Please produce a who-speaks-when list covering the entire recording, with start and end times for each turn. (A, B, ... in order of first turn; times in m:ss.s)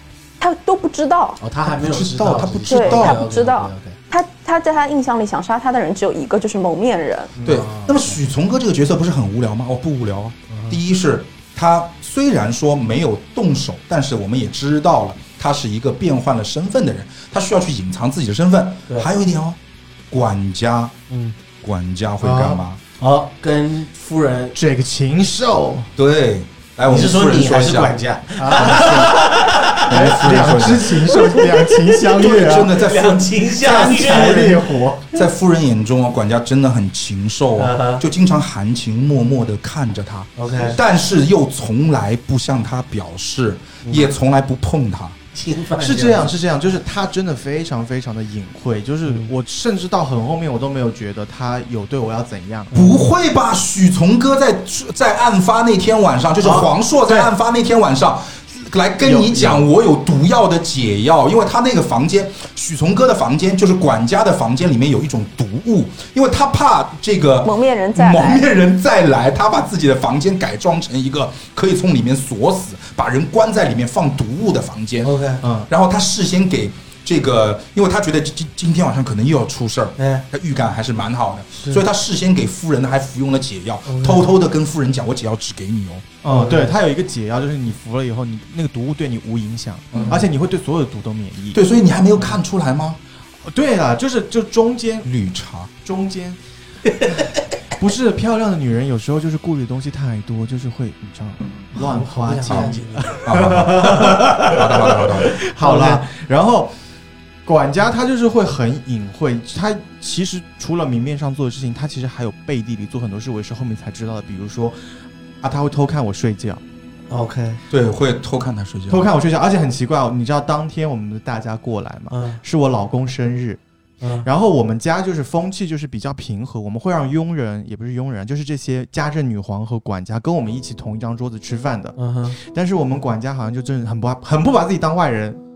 0:00.4-0:01.4 A
0:01.4-0:04.0 B
0:01.7-0:03.2 C
0:02.7-0:07.3 A
0:07.4-0:08.2 B
0:07.4-0:19.6 C
0:10.5-0:10.8 B
0:20.1-0:21.0 C
0:21.1-0:21.4 B
0:21.6-0:22.8 C
0:22.2-0:22.6 D
0:23.0-0:24.6 B
0:24.6-0:25.9 D
0:26.0-0:28.0 C
0:26.9-0:30.2 B
0:28.4-0:29.3 D
0:28.6-0:29.1 C
0:29.8-0:31.3 C
0:29.9-0:32.7 D
0:31.3-0:34.7 B
0:32.1-0:45.2 C
0:33.6-0:35.1 D
0:37.6-0:38.0 B
0:40.4-0:40.8 B
0:45.3-0:46.3 B
0:45.8-0:52.7 D
0:52.7-0:53.0 B
0:52.7-1:15.1 C
0:56.4-0:56.7 B
0:57.1-0:57.3 D
0:59.0-0:59.7 D
1:07.4-1:08.4 A
1:15.0-1:15.4 B
1:15.4-1:15.7 D
1:15.7-1:26.1 C
1:20.0-1:20.2 B
1:21.6-1:21.8 B
1:23.9-1:24.3 B
1:26.2-1:31.6 D
1:26.3-1:26.7 B
1:29.9-1:30.2 C
1:31.5-1:33.0 C
1:33.4-1:35.1 D
1:35.0-1:35.7 C
1:35.8-1:36.4 D
1:37.0-1:37.2 B
1:37.0-1:44.5 D
1:41.8-1:43.2 B
1:43.2-1:45.4 C
1:43.8-1:45.0 B
1:45.3-1:46.7 D
1:45.6-1:46.0 B
1:47.4-1:56.6 D
1:57.1-1:57.6 B
1:57.7-1:59.1 C
1:58.9-2:03.6 D
2:02.1-2:02.4 B
2:04.0-2:04.3 B
2:04.2-2:15.4 D
2:12.0-2:12.4 B